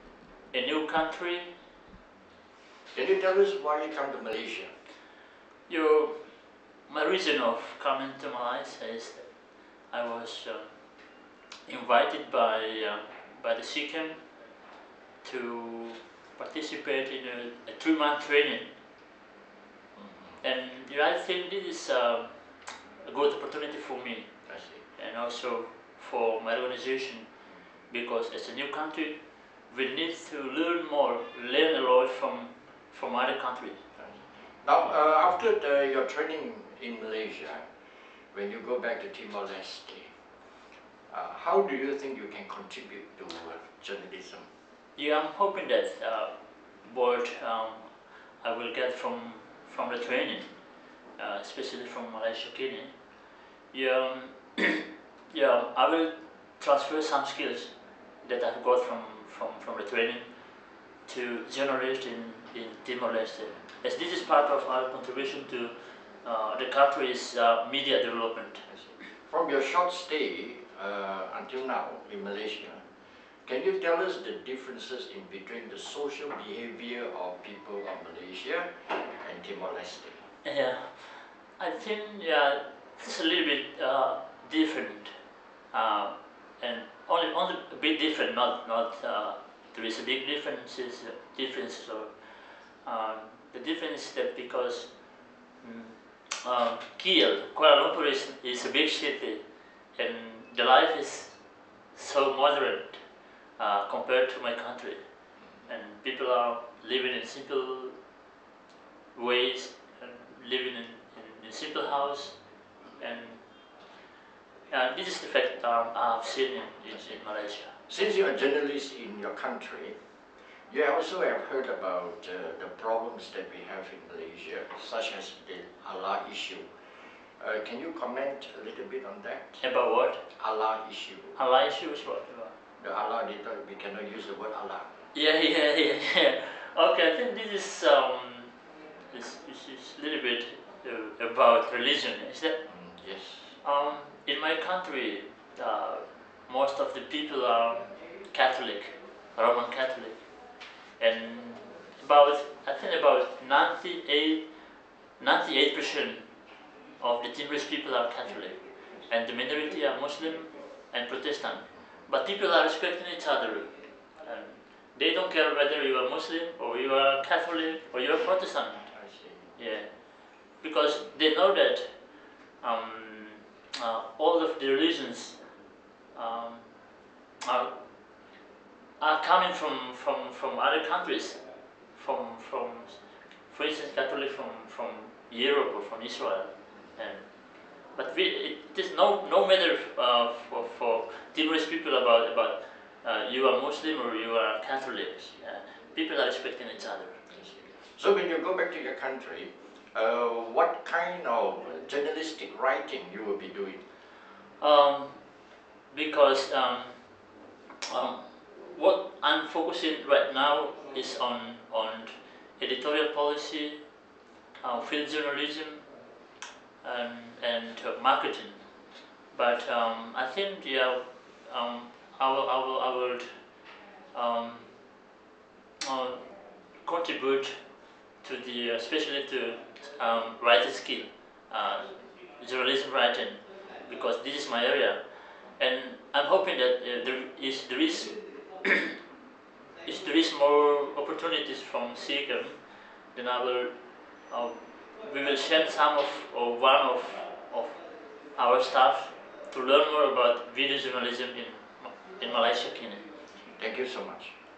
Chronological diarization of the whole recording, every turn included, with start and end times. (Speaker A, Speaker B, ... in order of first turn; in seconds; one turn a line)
Speaker A: 0.5-1.5
Speaker B: 2.9-4.7
Speaker A: 5.7-6.3
Speaker A: 6.9-9.3
Speaker A: 9.9-10.7
Speaker A: 11.7-14.2
Speaker A: 15.2-18.7
Speaker B: 20.0-20.4
Speaker A: 20.4-24.3
Speaker B: 24.5-24.8
Speaker A: 25.0-27.3
Speaker A: 27.9-33.8
Speaker B: 34.0-37.7
Speaker B: 38.3-40.1
Speaker B: 41.1-44.5
Speaker A: 45.0-46.3
Speaker A: 46.8-50.5
Speaker A: 51.2-52.9
Speaker A: 53.7-60.3
Speaker A: 61.1-68.7
Speaker B: 69.1-72.9
Speaker B: 73.4-80.2
Speaker A: 80.4-85.1
Speaker A: 85.7-95.0
Speaker A: 95.6-99.4
Speaker A: 100.0-101.4
Speaker A: 101.9-103.0
Speaker A: 103.6-105.0
Speaker A: 105.7-108.0
Speaker A: 109.2-112.4
Speaker A: 113.0-113.4
Speaker A: 114.7-117.7
Speaker B: 117.9-120.0
Speaker B: 120.7-129.6
Speaker A: 129.6-130.2
Speaker B: 130.3-131.4
Speaker A: 131.4-132.5
Speaker B: 132.8-135.0
Speaker A: 135.1-138.6
Speaker A: 139.1-142.6
Speaker B: 142.7-143.6
Speaker A: 143.6-150.2
Speaker A: 151.0-154.6
Speaker A: 155.2-156.3
Speaker A: 157.0-163.7
Speaker A: 164.2-168.9
Speaker B: 168.9-169.5
Speaker A: 169.6-175.4
Speaker A: 176.1-176.7
Speaker A: 177.4-177.8
Speaker A: 179.0-181.4
Speaker A: 181.9-187.3
Speaker A: 187.9-197.2
Speaker B: 197.3-203.8
Speaker A: 204.6-205.2
Speaker A: 205.9-207.2
Speaker A: 207.8-213.8
Speaker A: 214.6-215.8
Speaker A: 216.8-218.6
Speaker A: 219.3-223.5
Speaker A: 224.1-224.8
Speaker A: 225.8-226.2
Speaker A: 226.8-227.7
Speaker A: 228.2-239.0
Speaker A: 239.8-247.8
Speaker A: 248.4-253.0
Speaker B: 253.4-254.3